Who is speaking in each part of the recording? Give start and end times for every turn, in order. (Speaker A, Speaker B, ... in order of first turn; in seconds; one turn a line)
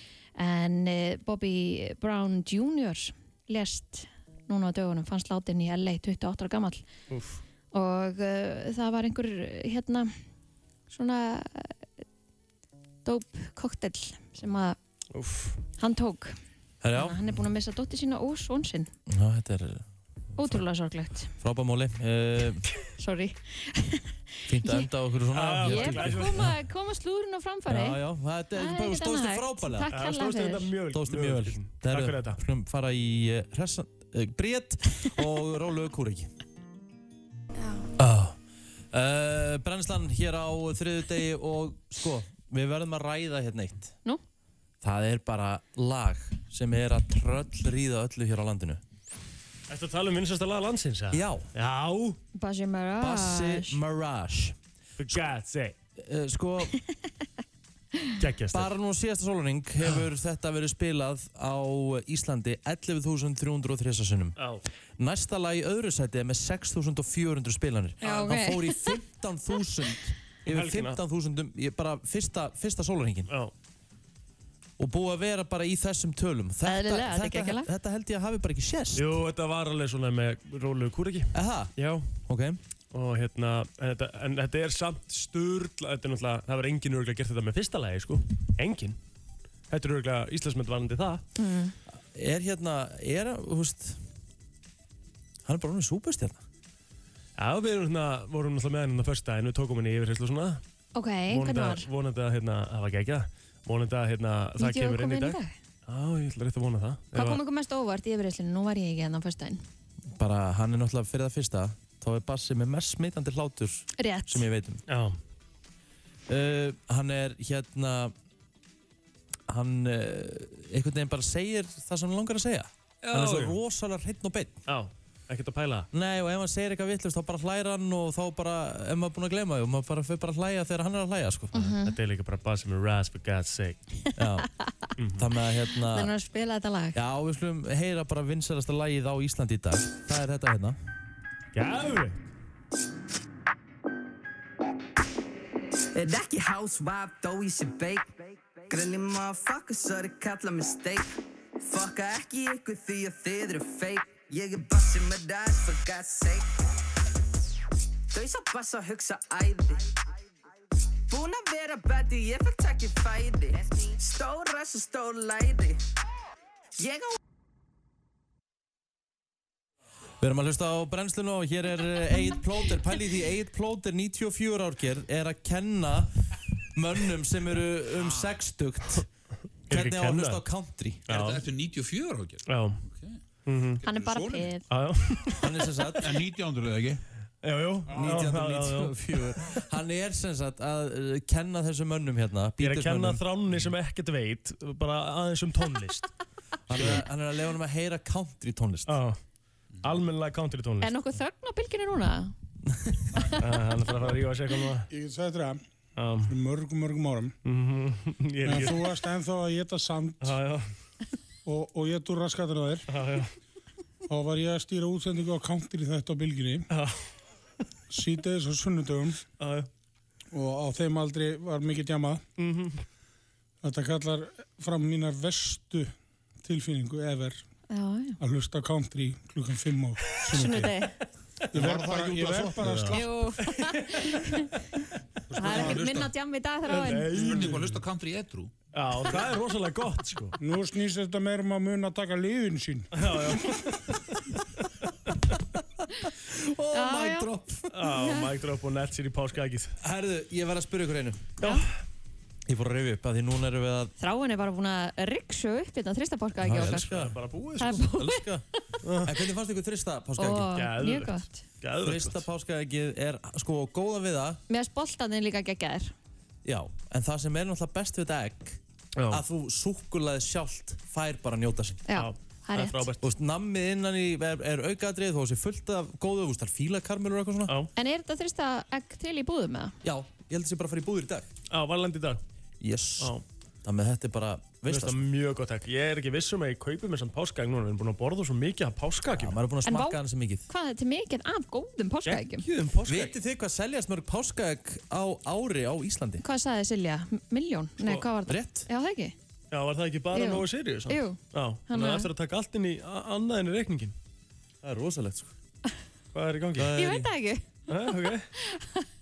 Speaker A: 0.4-6.8
Speaker B: 7.1-7.4
Speaker A: 7.7-10.1
Speaker A: 10.9-11.8
Speaker A: 13.0-14.8
Speaker B: 15.1-15.6
Speaker A: 15.8-16.4
Speaker C: 16.8-17.2
Speaker A: 16.9-18.9
Speaker C: 19.1-19.8
Speaker A: 20.4-21.3
Speaker C: 21.4-22.6
Speaker A: 23.0-24.9
Speaker C: 24.5-26.5
Speaker B: 25.3-26.5
Speaker A: 25.6-28.0
Speaker C: 27.7-29.9
Speaker A: 28.5-30.7
Speaker B: 29.9-32.4
Speaker C: 30.9-36.3
Speaker A: 37.6-37.9
Speaker C: 38.0-38.4
Speaker C: 38.9-43.9
Speaker C: 44.8-48.8
Speaker B: 49.7-52.2
Speaker C: 51.1-51.5
Speaker A: 52.4-53.8
Speaker C: 53.0-54.6
Speaker B: 55.0-55.8
Speaker C: 56.0-56.8
Speaker B: 58.2-58.7
Speaker C: 58.5-64.4
Speaker B: 64.4-64.6
Speaker C: 65.0-73.3
Speaker A: 68.0-69.0
Speaker B: 70.5-71.0
Speaker C: 74.8-79.1
Speaker A: 76.7-77.7
Speaker B: 78.9-82.1
Speaker C: 81.3-81.7
Speaker C: 82.2-82.6
Speaker B: 82.9-89.0
Speaker B: 89.7-91.2
Speaker A: 91.4-91.7
Speaker C: 92.1-94.0
Speaker C: 95.4-96.4
Speaker B: 97.4-100.6
Speaker A: 100.9-101.9
Speaker B: 101.3-107.4
Speaker A: 104.6-105.5
Speaker A: 107.1-109.6
Speaker C: 110.1-114.8
Speaker A: 114.0-114.5
Speaker B: 114.9-115.2
Speaker C: 116.3-118.1
Speaker C: 119.5-124.5
Speaker B: 123.0-123.6
Speaker B: 124.7-125.9
Speaker C: 125.9-131.8
Speaker A: 131.5-131.9
Speaker B: 131.8-133.8
Speaker C: 134.2-134.5
Speaker B: 135.0-135.3
Speaker C: 135.2-136.1
Speaker A: 135.9-137.0
Speaker C: 136.9-140.8
Speaker B: 141.5-142.3
Speaker D: 145.9-156.5
Speaker D: 158.1-160.0
Speaker D: 161.1-165.8
Speaker D: 166.8-167.1
Speaker C: 170.2-176.1
Speaker C: 176.7-179.1
Speaker B: 179.7-180.4
Speaker C: 179.7-181.1
Speaker B: 181.1-181.4
Speaker E: 181.1-183.2
Speaker B: 182.4-182.8
Speaker B: 183.4-183.8
Speaker E: 183.8-184.6
Speaker A: 183.8-184.7
Speaker B: 184.7-185.6
Speaker C: 185.4-186.1
Speaker E: 186.0-187.0
Speaker B: 187.4-189.4
Speaker E: 187.9-188.3
Speaker C: 187.9-193.2
Speaker B: 192.6-196.1
Speaker C: 196.7-199.0
Speaker B: 196.7-197.0
Speaker B: 198.9-199.2
Speaker B: 199.8-200.9
Speaker A: 200.8-202.3
Speaker C: 202.7-203.0
Speaker B: 203.4-204.9
Speaker F: 204.9-205.6
Speaker B: 206.0-206.3
Speaker F: 206.2-207.3
Speaker B: 207.4-208.9
Speaker F: 208.4-210.4
Speaker B: 210.2-210.7
Speaker F: 211.4-212.9
Speaker B: 212.9-213.3
Speaker F: 214.1-216.7
Speaker B: 216.7-217.0
Speaker F: 217.9-219.2
Speaker B: 219.4-219.7
Speaker F: 220.3-222.2
Speaker B: 222.4-222.8
Speaker F: 223.6-225.9
Speaker F: 226.4-227.4
Speaker A: 227.7-228.2
Speaker F: 228.2-230.8
Speaker A: 230.3-230.9
Speaker F: 231.5-233.2
Speaker E: 231.5-232.9
Speaker B: 232.6-234.2
Speaker A: 232.9-234.5
Speaker E: 235.3-236.1
Speaker A: 235.3-237.2
Speaker B: 235.4-235.8
Speaker B: 236.7-237.7
Speaker E: 237.0-238.5
Speaker B: 238.7-240.3
Speaker F: 240.4-243.4
Speaker B: 242.9-243.8
Speaker C: 246.2-247.8
Speaker A: 246.7-247.3
Speaker B: 247.7-249.8
Speaker A: 247.9-248.2
Speaker C: 249.8-251.3
Speaker A: 251.4-251.7
Speaker B: 251.4-251.7
Speaker C: 252.5-253.9
Speaker A: 254.0-256.9
Speaker C: 256.4-258.4
Speaker B: 256.5-257.8
Speaker A: 257.6-258.2
Speaker B: 258.8-259.1
Speaker C: 259.0-260.6
Speaker A: 260.2-261.4
Speaker B: 260.5-262.2
Speaker C: 261.8-264.4
Speaker A: 264.5-265.9
Speaker C: 266.4-271.8
Speaker B: 269.0-269.2
Speaker A: 271.9-272.9
Speaker B: 271.9-273.0
Speaker C: 273.0-277.6
Speaker A: 277.8-279.7
Speaker C: 279.8-281.3
Speaker B: 281.5-282.2
Speaker C: 282.6-285.0
Speaker B: 283.0-283.2
Speaker B: 284.7-289.4
Speaker C: 289.1-290.5
Speaker A: 289.6-292.4
Speaker B: 292.1-293.1
Speaker C: 292.9-296.2
Speaker A: 296.2-299.1
Speaker C: 298.3-298.7
Speaker B: 299.5-303.9
Speaker A: 300.1-302.1
Speaker C: 304.6-305.3
Speaker B: 306.1-306.8
Speaker C: 306.6-307.1
Speaker A: 306.7-308.9
Speaker B: 307.7-308.3